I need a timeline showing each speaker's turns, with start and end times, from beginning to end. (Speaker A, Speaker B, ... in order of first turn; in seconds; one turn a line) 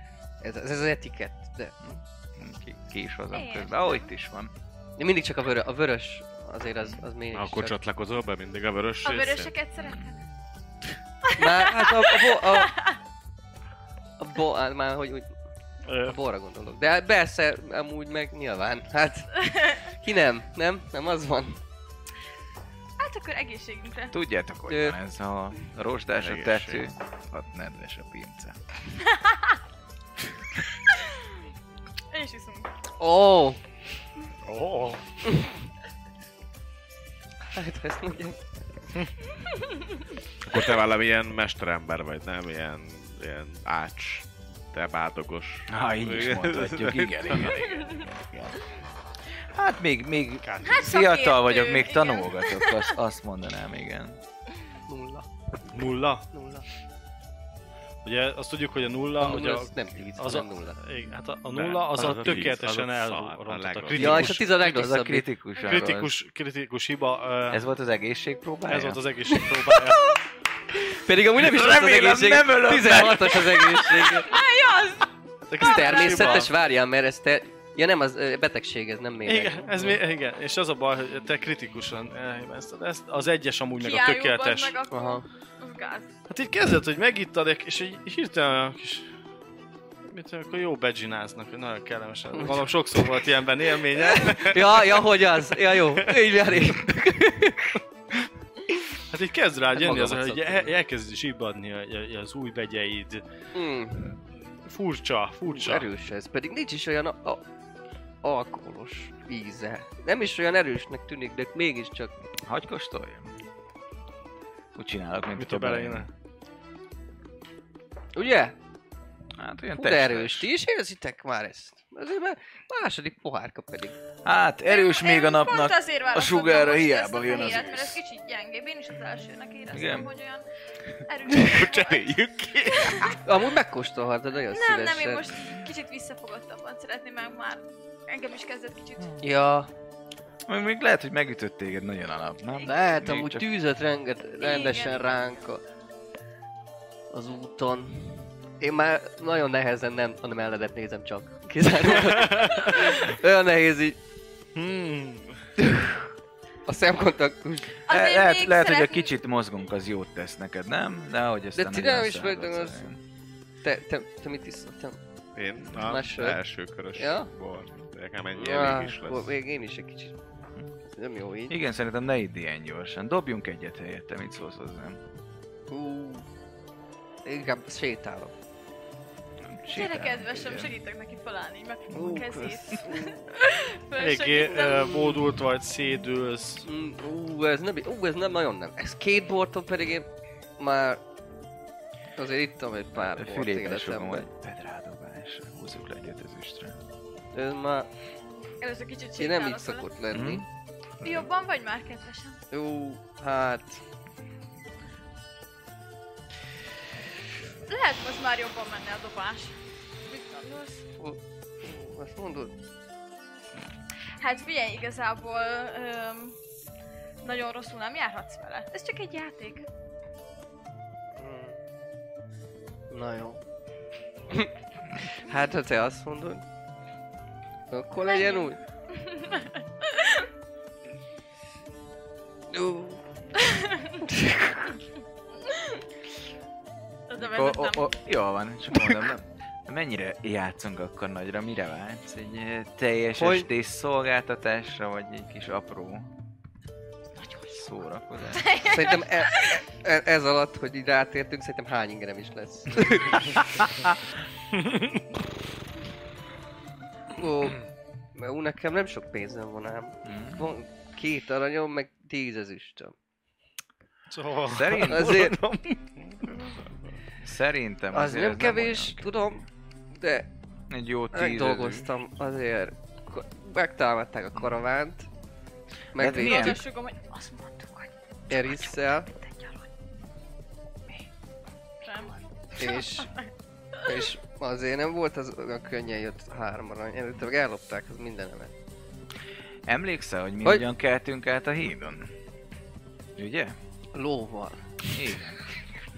Speaker A: 0.4-1.8
Speaker B: 1.8-4.5
Speaker C: 3.3-4.1
Speaker A: 5.0-7.8
Speaker D: 7.3-9.6
Speaker C: 9.0-10.2
Speaker B: 9.8-10.3
Speaker A: 11.4-12.7
Speaker C: 11.4-13.0
Speaker A: 14.2-15.3
Speaker E: 15.8-16.2
Speaker A: 16.0-21.6
Speaker C: 19.5-19.8
Speaker C: 23.0-24.1
Speaker B: 24.1-28.6
Speaker A: 24.7-25.0
Speaker D: 26.2-26.9
Speaker C: 32.1-32.7
Speaker A: 33.0-33.6
Speaker E: 34.4-35.0
Speaker A: 37.5-38.5
Speaker C: 39.5-39.8
Speaker D: 40.4-47.6
Speaker B: 45.7-48.6
Speaker B: 49.5-54.2
Speaker E: 50.4-50.8
Speaker C: 50.6-52.9
Speaker A: 54.9-55.3
Speaker E: 55.7-56.2
Speaker A: 56.3-56.6
Speaker E: 58.0-64.8
Speaker A: 59.2-60.8
Speaker D: 61.5-64.4
Speaker A: 63.9-65.3
Speaker B: 64.6-66.1
Speaker C: 65.5-65.9
Speaker E: 65.6-67.6
Speaker B: 67.5-69.0
Speaker E: 68.7-70.0
Speaker A: 69.3-70.2
Speaker A: 70.7-74.3
Speaker B: 71.4-74.0
Speaker C: 74.2-76.4
Speaker E: 75.5-76.5
Speaker A: 75.6-80.0
Speaker E: 79.2-84.8
Speaker C: 83.8-86.1
Speaker A: 84.9-85.2
Speaker E: 86.3-89.1
Speaker E: 90.1-96.3
Speaker A: 92.3-92.7
Speaker A: 93.9-97.8
Speaker E: 99.1-103.2
Speaker A: 99.7-100.7
Speaker A: 103.5-104.2
Speaker E: 104.7-105.9
Speaker A: 105.5-107.4
Speaker A: 108.2-112.1
Speaker B: 112.4-113.3
Speaker B: 114.7-116.1
Speaker E: 115.4-116.1
Speaker A: 118.1-118.5
Speaker B: 119.3-120.5
Speaker A: 119.7-124.0
Speaker B: 124.2-128.0
Speaker C: 124.7-130.4
Speaker B: 129.7-130.1
Speaker C: 131.0-133.2
Speaker D: 131.3-133.2
Speaker A: 133.2-135.3
Speaker C: 134.5-139.2
Speaker A: 139.2-139.7
Speaker B: 140.5-143.5
Speaker A: 142.6-145.6
Speaker C: 144.4-145.3
Speaker A: 147.1-154.0
Speaker E: 154.5-155.4
Speaker A: 155.6-156.0
Speaker A: 156.7-157.8
Speaker C: 157.9-159.1
Speaker B: 157.9-163.0
Speaker A: 161.5-162.9
Speaker A: 163.6-165.0
Speaker D: 165.3-169.3
Speaker A: 165.8-166.4
Speaker A: 166.9-167.3
Speaker A: 168.3-170.2
Speaker A: 170.9-171.6
Speaker B: 171.5-175.0
Speaker A: 175.7-176.2
Speaker A: 177.2-178.3
Speaker B: 179.4-180.7
Speaker C: 179.7-185.0
Speaker B: 181.9-182.5
Speaker A: 181.9-183.2
Speaker E: 184.0-186.7
Speaker A: 186.6-190.1
Speaker A: 190.6-191.0
Speaker A: 192.2-194.2
Speaker B: 192.9-196.8
Speaker A: 197.3-197.9
Speaker C: 198.6-199.9
Speaker A: 199.2-200.4
Speaker B: 200.1-200.4
Speaker B: 201.0-201.3
Speaker C: 201.0-202.4
Speaker A: 202.5-203.8
Speaker C: 207.7-209.6
Speaker C: 210.1-210.8
Speaker A: 211.0-212.5
Speaker C: 214.2-216.4
Speaker C: 217.2-219.7
Speaker A: 221.2-221.6
Speaker A: 222.9-223.4
Speaker A: 224.3-226.4
Speaker A: 227.7-228.6
Speaker C: 228.0-230.3
Speaker A: 232.5-233.0
Speaker C: 233.5-233.9
Speaker A: 234.0-234.7
Speaker C: 235.5-235.8
Speaker C: 237.1-237.9
Speaker B: 237.2-246.1
Speaker A: 243.1-243.5
Speaker B: 247.4-248.6
Speaker C: 248.4-249.6
Speaker A: 248.6-253.4
Speaker E: 254.5-255.0
Speaker A: 257.1-257.6
Speaker A: 258.1-262.9
Speaker B: 260.0-260.5
Speaker E: 264.1-266.4
Speaker B: 264.4-265.4
Speaker A: 264.8-265.4
Speaker B: 267.2-269.4
Speaker A: 267.9-270.3
Speaker B: 270.7-271.9
Speaker A: 271.1-275.1
Speaker A: 275.9-276.6
Speaker B: 275.9-276.6
Speaker C: 276.1-279.5
Speaker A: 278.3-279.1
Speaker C: 281.8-283.3
Speaker A: 282.6-283.1
Speaker A: 283.8-288.5
Speaker B: 289.7-292.1
Speaker B: 293.1-293.6
Speaker A: 293.9-294.9
Speaker B: 294.9-295.4